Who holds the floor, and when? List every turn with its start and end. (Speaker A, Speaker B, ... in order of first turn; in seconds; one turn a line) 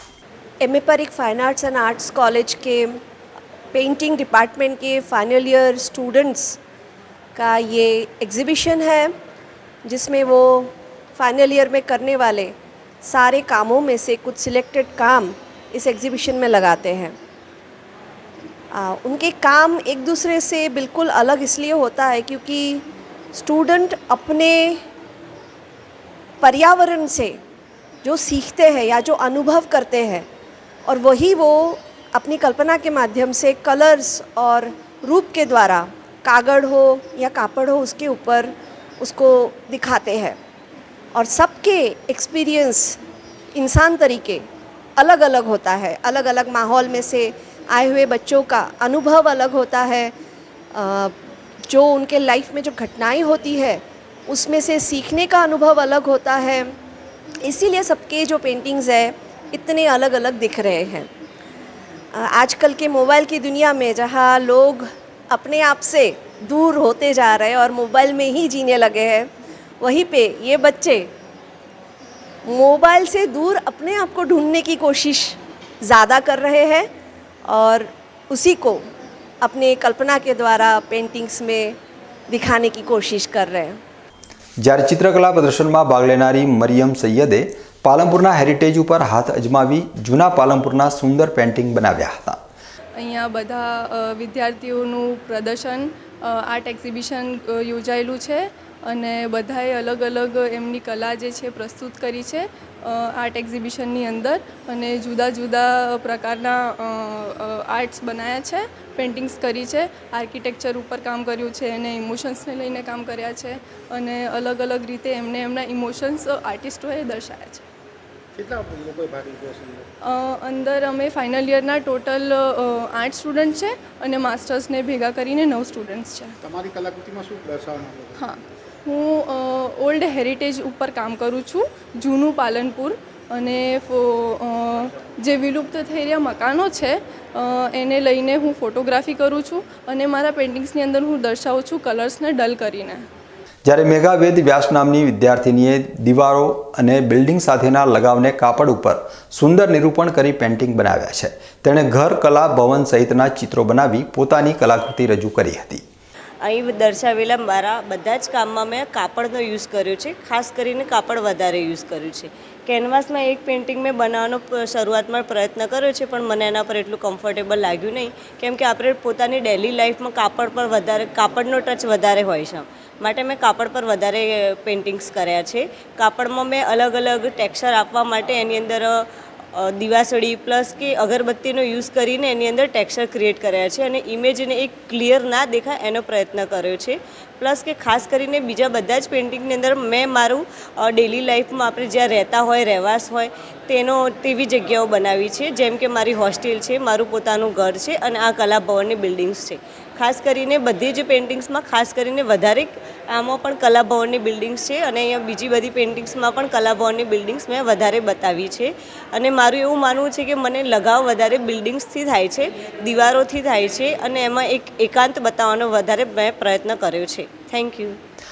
Speaker A: 0.6-3.0
Speaker A: 3.7-6.6
Speaker A: 7.3-9.1
Speaker A: 9.8-17.1
Speaker A: 18.7-22.8
Speaker A: 23.3-24.8
Speaker A: 26.4-27.4
Speaker A: 28.0-30.2
Speaker A: 30.9-40.4
Speaker A: 41.1-43.0
Speaker A: 43.5-44.4
Speaker A: 45.0-50.1
Speaker A: 50.7-51.1
Speaker A: 51.7-56.7
Speaker A: 57.4-61.1
Speaker A: 62.1-69.3
Speaker A: 69.8-71.1
Speaker A: 72.5-76.9
Speaker A: 77.5-78.8
Speaker A: 79.4-81.8
Speaker A: 82.3-83.8
Speaker B: 84.6-92.4
Speaker C: 93.0-117.6
Speaker D: 118.3-119.9
Speaker C: 120.0-126.4
Speaker D: 126.4-128.2
Speaker C: 128.2-143.1
Speaker B: 143.7-155.8
Speaker E: 156.4-218.0